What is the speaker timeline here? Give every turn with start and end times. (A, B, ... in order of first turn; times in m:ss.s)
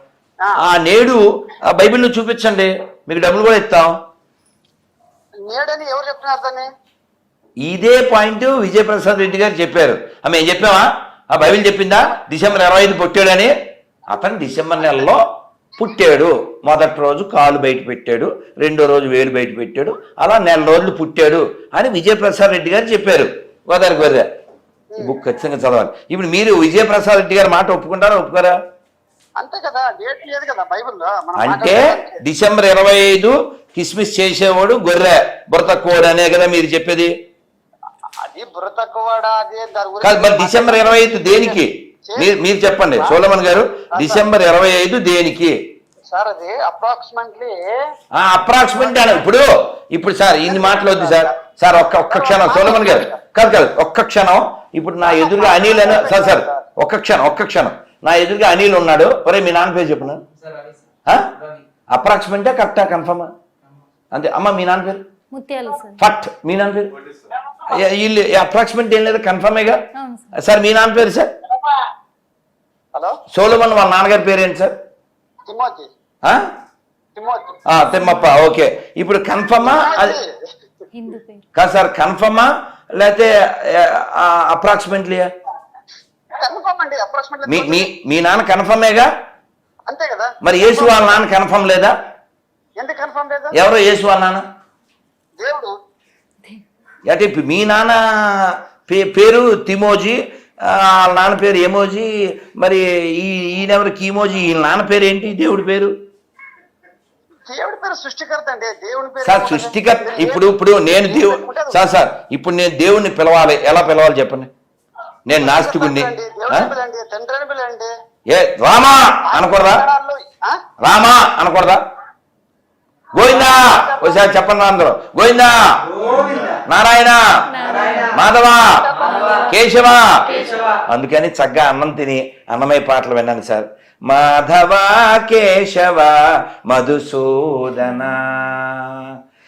0:00.6-0:04.0 A
0:05.4-0:06.7 B
0:07.6-0:13.5 A
0:14.1-0:15.2 A
0:15.8-0:24.3 A
0:25.0-0:28.5 A
0:29.4-0:32.2 B
0:31.4-0:37.1 A
0:38.2-0:43.2 B
0:40.0-0:45.6 A
0:43.9-0:44.2 B
0:46.1-0:47.7 B
0:48.1-1:00.2 A
0:48.8-0:49.2 B
0:50.4-0:51.3 B
0:52.1-0:53.2 B
0:55.0-0:56.6 B
1:01.0-1:01.3 A
1:01.9-1:03.3 A
1:04.1-1:05.0 A
1:05.3-1:06.0 C
1:06.0-1:07.0 A
1:07.7-1:11.3 A
1:09.9-1:10.4 C
1:13.3-1:14.8 A
1:15.5-1:15.9 B
1:16.2-1:16.5 A
1:17.2-1:17.6 B
1:17.6-1:20.2 A
1:19.6-1:20.3 B
1:20.9-1:21.4 C
1:21.5-1:25.3 A
1:26.4-1:27.9 B
1:27.5-1:29.1 A
1:29.9-1:31.2 B
1:30.4-1:32.0 A
1:32.8-1:33.5 B
1:33.5-1:34.4 A
1:35.4-1:35.7 B
1:37.1-1:45.9 A
1:47.5-1:51.8 B
1:49.2-1:54.5 A
1:55.3-1:56.7 A
1:55.4-1:57.9 B
1:58.3-1:59.8 A
1:59.3-2:00.6 B
2:00.8-2:01.8 A
2:03.1-2:19.1 A
2:03.2-2:04.2 B
2:07.5-2:08.2 C
2:08.8-2:09.3 B
2:09.0-2:09.5 C
2:10.3-2:10.6 C